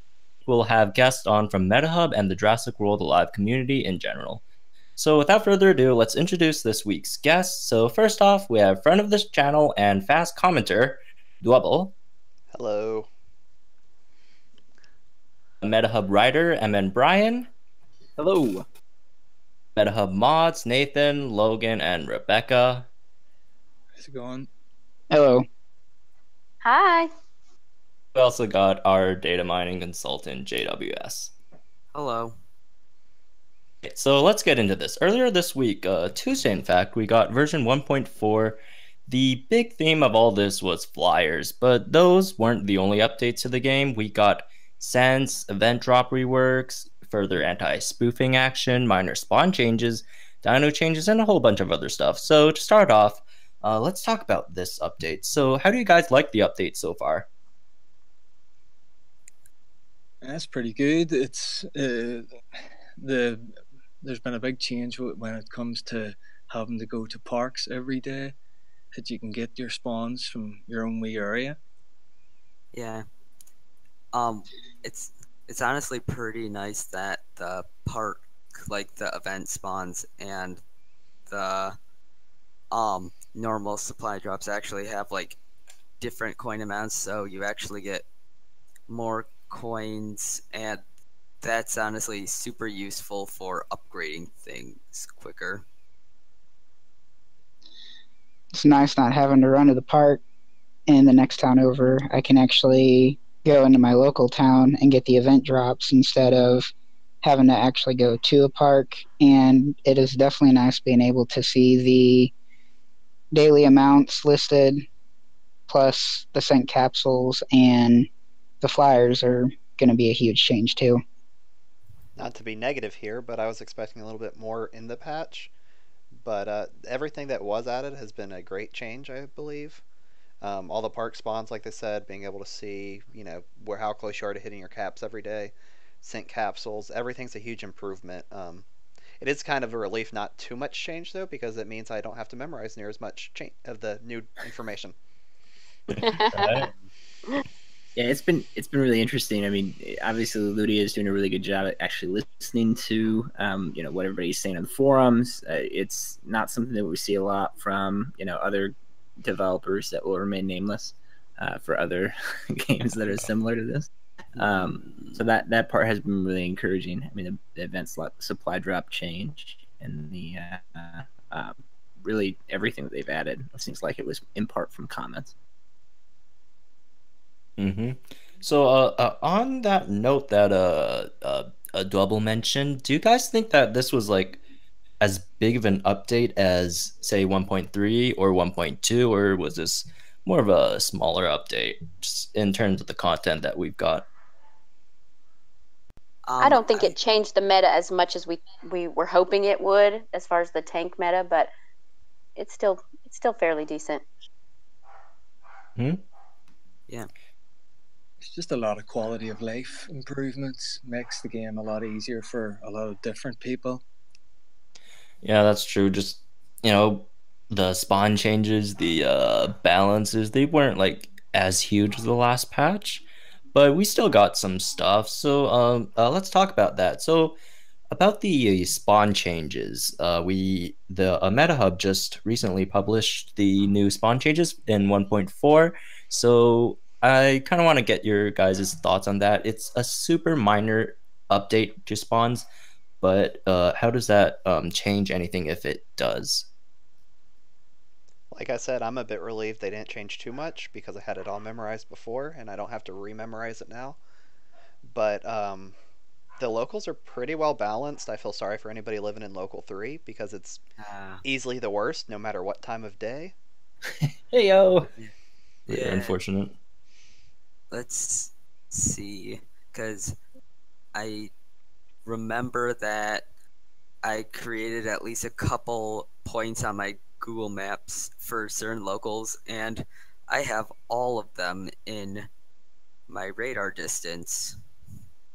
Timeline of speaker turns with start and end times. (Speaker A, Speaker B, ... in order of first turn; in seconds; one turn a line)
Speaker A: 0.5-4.4
Speaker A: 5.0-11.9
Speaker B: 12.5-13.1
Speaker A: 15.6-17.5
Speaker C: 18.2-18.7
Speaker A: 19.8-22.9
Speaker D: 24.0-24.5
Speaker E: 25.1-25.4
Speaker F: 26.6-27.1
Speaker A: 28.1-31.3
Speaker G: 31.9-32.4
Speaker A: 33.8-57.3
Speaker D: 60.2-62.3
Speaker D: 63.0-63.5
Speaker D: 64.0-68.3
Speaker D: 69.0-71.6
Speaker G: 72.7-73.0
Speaker G: 74.1-80.6
Speaker G: 81.3-81.8
Speaker G: 82.7-85.4
Speaker G: 86.0-88.0
Speaker G: 88.9-90.8
Speaker G: 91.4-95.6
Speaker E: 98.5-100.2
Speaker E: 100.9-106.7
Speaker E: 107.2-112.3
Speaker E: 113.3-114.8
Speaker E: 115.7-118.1
Speaker E: 118.6-121.0
Speaker B: 122.2-125.5
Speaker B: 126.2-129.8
Speaker B: 130.4-138.7
Speaker B: 139.2-144.9
Speaker A: 145.9-146.7
Speaker F: 146.0-146.7
Speaker C: 148.0-175.3
Speaker G: 164.4-165.2
Speaker A: 177.6-184.4
Speaker A: 185.0-194.1
Speaker G: 196.3-196.9
Speaker F: 196.4-201.5
Speaker F: 202.4-204.0
Speaker A: 205.8-206.0
Speaker D: 208.2-213.8
Speaker A: 215.2-227.4
Speaker A: 227.9-242.5
Speaker A: 243.0-246.5
Speaker B: 248.3-254.0
Speaker B: 254.9-255.8
Speaker B: 256.4-260.6
Speaker G: 260.8-261.2
Speaker B: 261.2-263.3
Speaker C: 263.9-264.9
Speaker G: 265.7-266.1
Speaker A: 265.7-266.5
Speaker G: 267.7-270.2
Speaker G: 270.9-271.3
Speaker G: 272.1-273.2
Speaker G: 274.0-282.3
Speaker G: 283.1-284.6